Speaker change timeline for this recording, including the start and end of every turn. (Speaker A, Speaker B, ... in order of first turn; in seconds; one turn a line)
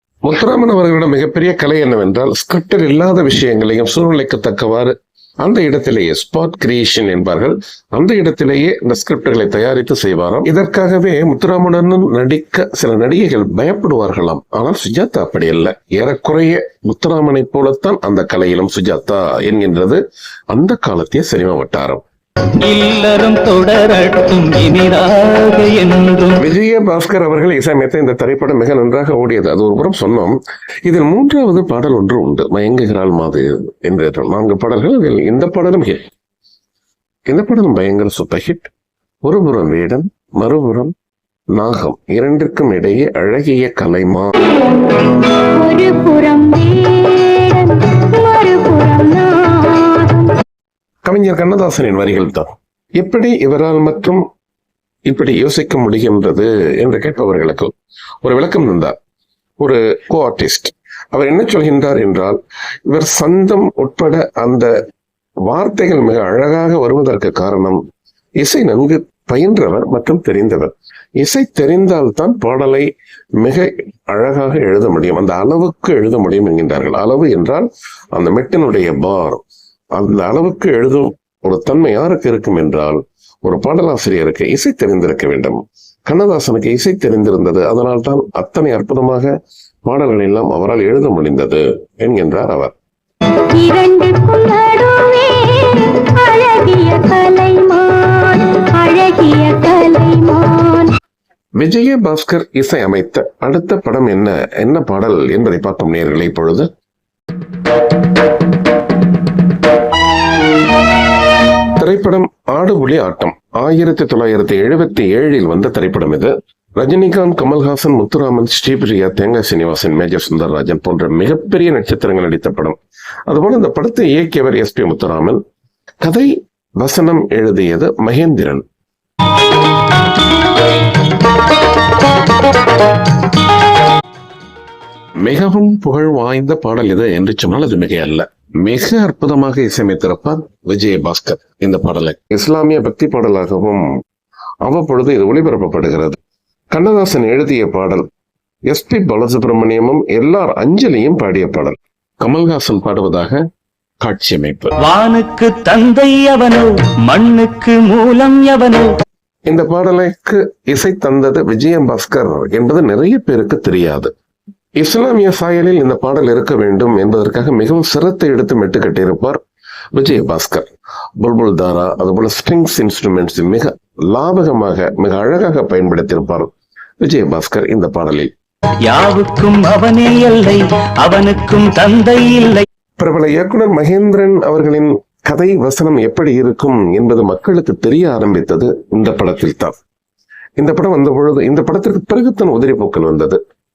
Speaker A: 0.2-22.0
Speaker B: 22.6-26.4
Speaker A: 26.4-36.1
Speaker A: 37.3-38.7
Speaker A: 39.2-40.9
Speaker A: 41.5-44.3
Speaker C: 45.6-50.4
Speaker A: 51.0-54.2
Speaker A: 55.0-58.9
Speaker A: 59.6-64.7
Speaker A: 65.5-67.8
Speaker A: 68.4-72.9
Speaker A: 73.4-89.3
Speaker A: 89.8-92.7
Speaker C: 93.5-100.9
Speaker A: 101.6-106.7
Speaker A: 111.8-125.4
Speaker A: 126.0-128.6
Speaker A: 135.2-143.8
Speaker A: 144.6-146.2
Speaker A: 146.7-148.1
Speaker A: 148.7-153.4
Speaker A: 154.0-154.7
Speaker B: 154.8-158.9
Speaker A: 159.5-164.1
Speaker A: 164.8-169.4
Speaker A: 169.9-170.7
Speaker A: 171.2-178.3
Speaker B: 178.9-182.7
Speaker A: 183.0-189.8
Speaker A: 190.6-193.4